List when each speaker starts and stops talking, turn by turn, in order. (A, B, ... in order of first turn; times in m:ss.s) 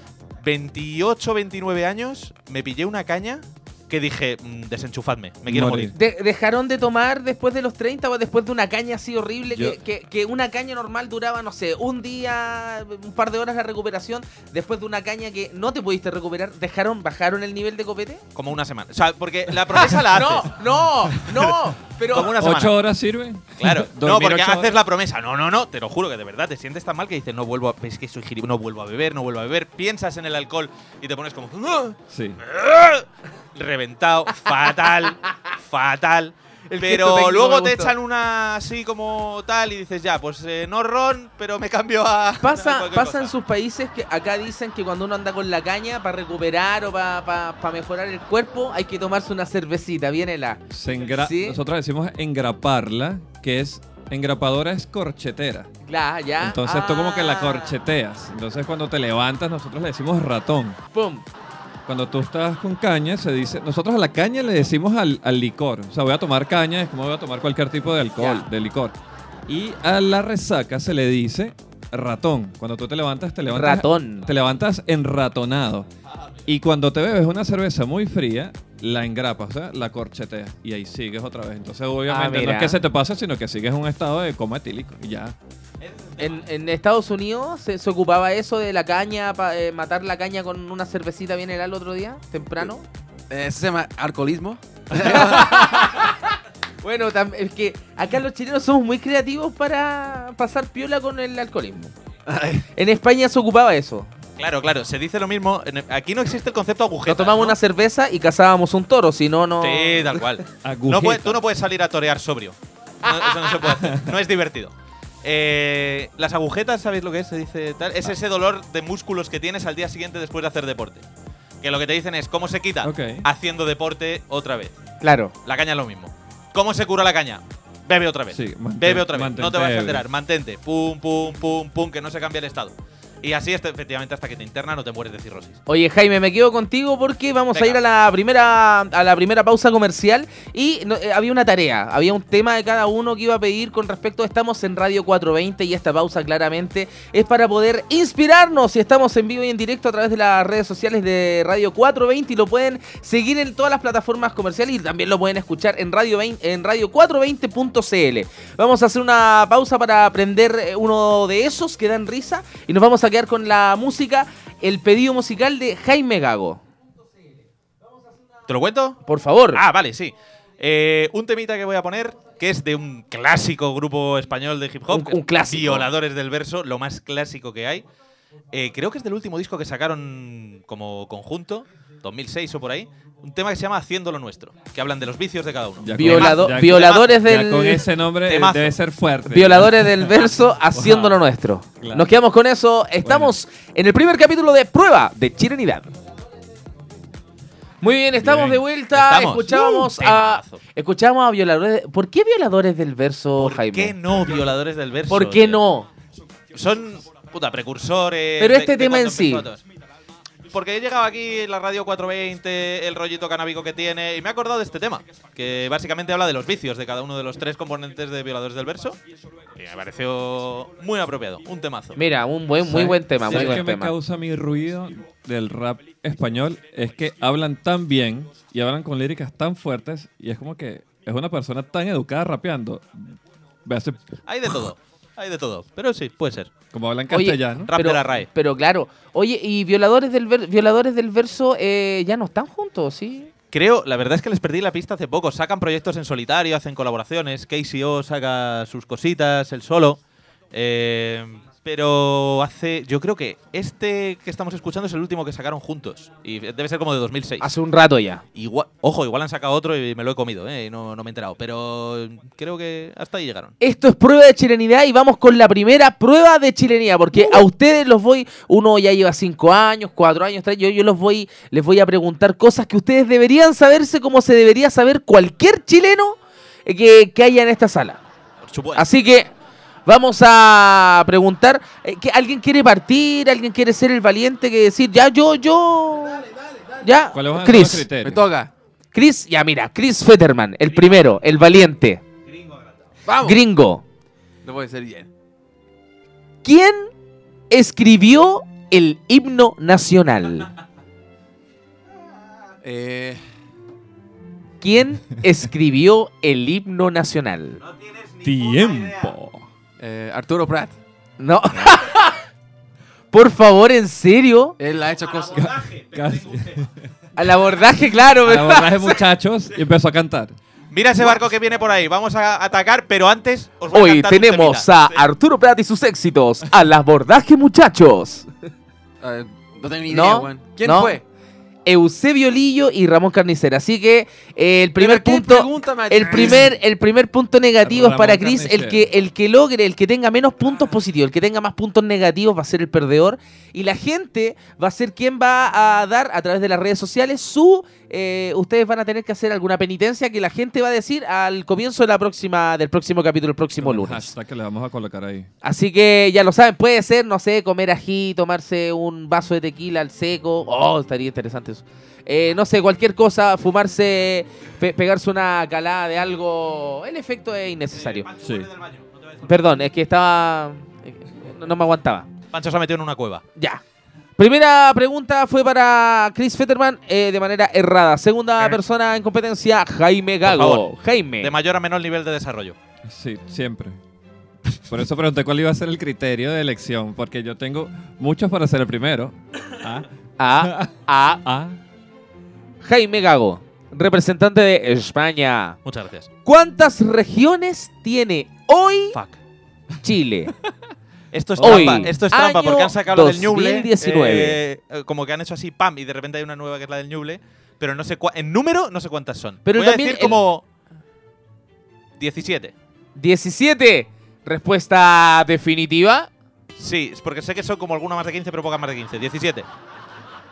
0:00.4-0:05.9 A
0:05.5-0:05.9 B
0:05.9-0:18.2 C
0:09.5-0:09.8 B
0:18.3-0:20.6 A
0:19.7-0:22.4 C
0:21.1-0:21.6 A
0:22.1-0:22.8 A
0:22.3-0:24.8 B
0:23.6-0:43.3 A
0:32.1-0:32.4 B
0:36.7-0:37.9 C
0:42.4-0:51.6 C
0:50.7-0:55.7 B
0:55.8-0:57.8 C
0:56.4-1:00.8 B
1:00.9-1:01.2 C
1:01.8-1:09.0 B
1:08.2-1:08.5 C
1:09.5-1:15.9 B
1:13.5-1:14.3 C
1:16.5-1:25.3 B
1:22.1-1:22.8 C
1:25.8-1:26.4 A
1:26.2-1:32.8 C
1:33.3-1:35.9 D
1:35.0-1:41.9 C
1:42.3-1:42.6 D
1:42.7-1:44.1 C
1:44.4-1:47.6 A
1:47.1-1:50.2 C
1:49.6-1:54.7 A
1:50.6-1:51.4 B
1:53.1-1:53.5 C
1:53.7-1:54.1 B
1:55.2-2:01.0 A
2:01.6-2:04.8 A
2:02.8-2:03.3 B
2:05.0-2:05.3 C
2:05.4-2:15.6 A
2:08.3-2:10.0 B
2:15.7-2:46.6 C
2:17.5-2:17.8 A
2:48.5-2:49.0 A
2:49.0-2:49.6 C
2:49.5-2:57.8 A
2:54.9-2:55.9 C
2:58.5-3:07.2 A
3:05.8-3:11.2 B
3:06.0-3:07.9 C
3:08.2-3:08.8 A
3:09.3-3:15.9 C
3:11.8-3:12.1 B
3:13.0-3:13.3 B
3:17.8-3:23.9 C
3:18.2-3:18.6 B
3:18.9-3:20.6 A
3:23.4-3:25.6 A
3:25.1-3:25.9 C
3:26.5-3:29.6 A
3:28.4-3:29.5 C
3:30.5-3:39.0 A
3:39.6-3:42.0 A
3:42.0-3:43.9 C
3:42.6-3:54.1 B
3:43.3-3:43.6 A
3:54.2-3:56.5 A
3:56.7-3:57.7 B
3:57.1-4:03.3 C
3:57.7-3:58.3 A
4:03.5-4:10.0 A
4:10.5-4:17.5 A
4:17.4-4:18.2 C
4:18.3-4:23.5 A
4:23.6-4:38.0 C
4:38.4-4:38.8 A
4:38.7-4:39.3 C
4:39.8-4:46.3 C
4:46.8-4:47.9 C
4:47.1-4:48.2 B
4:48.0-4:48.5 D
4:48.9-4:52.0 C
4:52.3-4:52.7 A
4:53.0-4:53.4 D
4:53.2-4:53.8 C
4:54.4-4:55.1 D
4:56.4-4:56.9 C
4:57.5-5:00.5 C
5:02.6-5:03.2 D
5:04.6-5:07.6 C
5:07.6-5:09.1 A
5:08.2-5:09.5 B
5:09.8-5:10.8 D
5:11.2-5:12.2 C
5:13.1-5:14.6 C
5:14.6-5:15.5 D
5:15.0-5:16.6 A
5:15.3-5:16.8 B
5:17.2-5:19.0 C
5:18.2-5:20.4 B
5:20.7-5:25.0 A
5:23.7-5:28.3 C
5:29.0-5:31.0 D
5:29.9-5:31.0 C
5:31.6-5:54.1 C
5:34.8-5:36.5 D
5:37.6-5:38.9 B
5:53.6-5:55.3 B
5:55.4-6:08.1 C
6:07.7-6:09.5 A
6:08.2-6:08.5 B
6:09.2-6:12.1 C
6:12.3-6:13.2 A
6:13.4-6:13.6 C
6:14.2-6:21.3 C
6:20.2-6:20.7 A
6:21.2-6:22.6 A
6:22.8-6:23.8 B
6:24.6-6:29.9 B
6:30.2-6:31.2 C
6:30.4-6:31.6 B
6:32.6-6:35.6 C
6:35.6-6:36.1 A
6:36.2-6:39.0 C
6:38.9-6:39.2 A
6:39.8-6:40.3 C
6:41.1-6:50.4 A
6:41.4-6:41.9 B
6:41.4-6:44.4 C
6:49.4-6:50.2 C
6:52.0-6:52.5 A
6:53.0-6:56.1 C
6:56.6-6:59.5 A